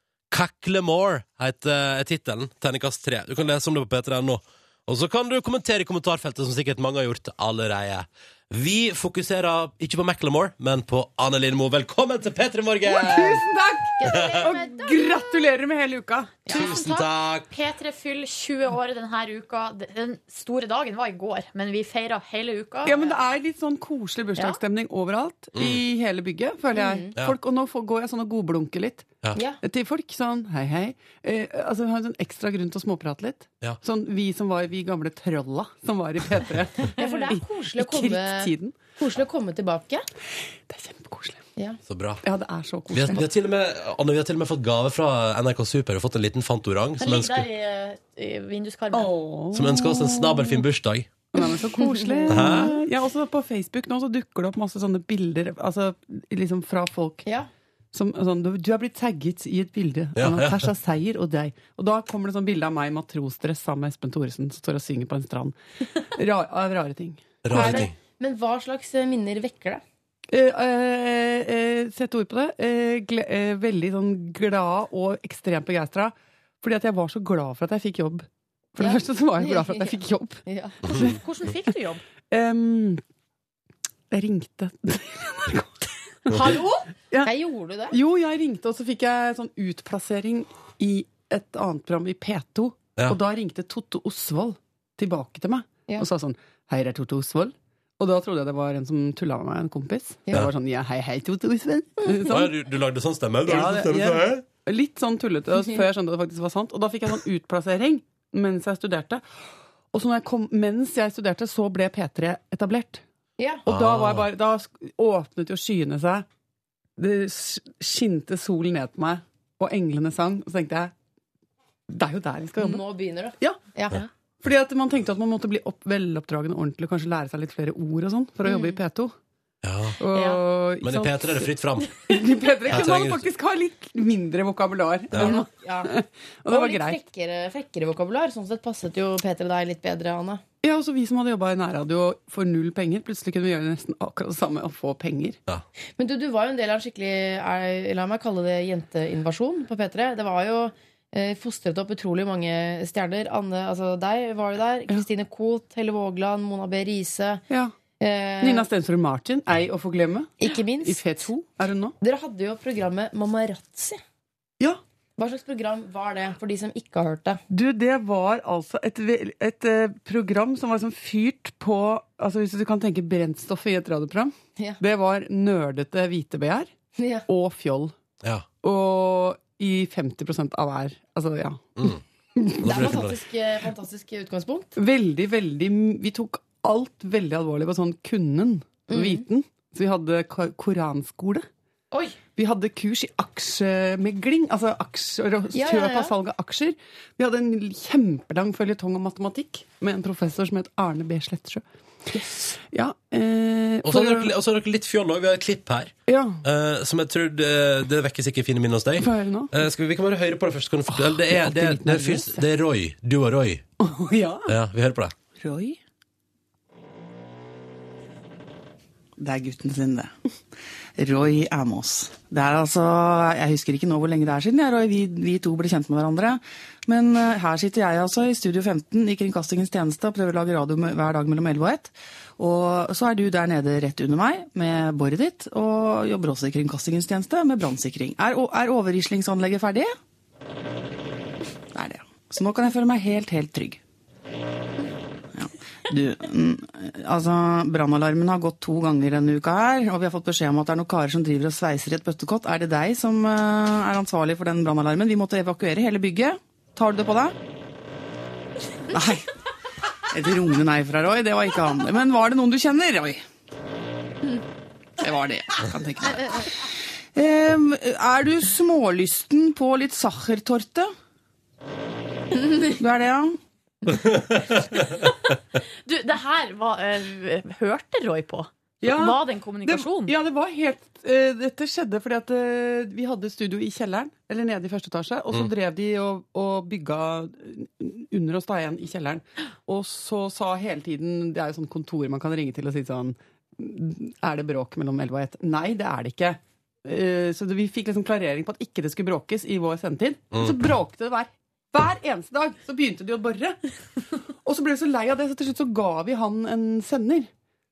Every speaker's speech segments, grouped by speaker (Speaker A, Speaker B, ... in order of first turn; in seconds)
Speaker A: 0.3-13.4, 14.1-14.4, 16.5-17.5, 25.6-25.8, 41.9-42.2, 42.9-47.5, 49.5-51.2, 52.3-52.7, 60.2-60.7, 67.4-67.9, 102.2-104.5, 113.7-114.3, 129.6-130.0, 130.8-132.0, 132.7-133.3, 182.6-183.1, 203.8-213.7, 214.5-215.1, 274.1-274.6
Speaker B: 12.8-16.4, 22.9-38.8, 40.7-41.4, 42.2-43.3, 48.9-50.5, 51.3-57.2, 57.9-65.6, 66.2-67.8, 70.3-80.4, 82.3-83.0, 84.1-85.8, 87.9-102.5, 103.5-109.2, 109.9-113.0, 113.7-116.3, 117.0-120.9, 121.9-122.8, 124.4-129.2, 130.0-131.4, 132.0-137.0, 140.6-145.4, 157.5-157.8, 158.4-161.9, 167.5-176.7, 177.3-177.9, 178.6-181.7, 184.8-191.5, 192.3-201.6, 202.5-204.3, 206.1-206.4, 209.0-209.6, 210.9-212.4, 213.8-214.5, 278.8-303.6, 304.4-307.3
Speaker C: 14.0-15.5, 16.5-16.9, 26.7-27.1, 37.0-40.1, 51.8-52.7, 67.5-69.8, 78.8-80.8, 87.2-88.0, 113.4-113.7, 122.6-124.1, 128.4-128.8, 135.1-135.9, 136.5-140.4, 146.0-157.4, 158.0-158.7, 160.4-161.3, 162.0-164.0, 165.2-167.4, 177.0-177.2, 182.6-184.7, 188.9-189.2, 195.5-196.1, 272.4-272.7
Speaker D: 16.5-23.2, 47.0-49.1, 80.9-82.0, 86.3-86.9, 275.9-280.1
Speaker E: 219.2-220.1, 221.0-239.9, 241.7-243.8, 245.4-257.4, 258.9-259.2, 260.1-263.2, 265.0-266.4, 267.1-270.9, 272.8-273.3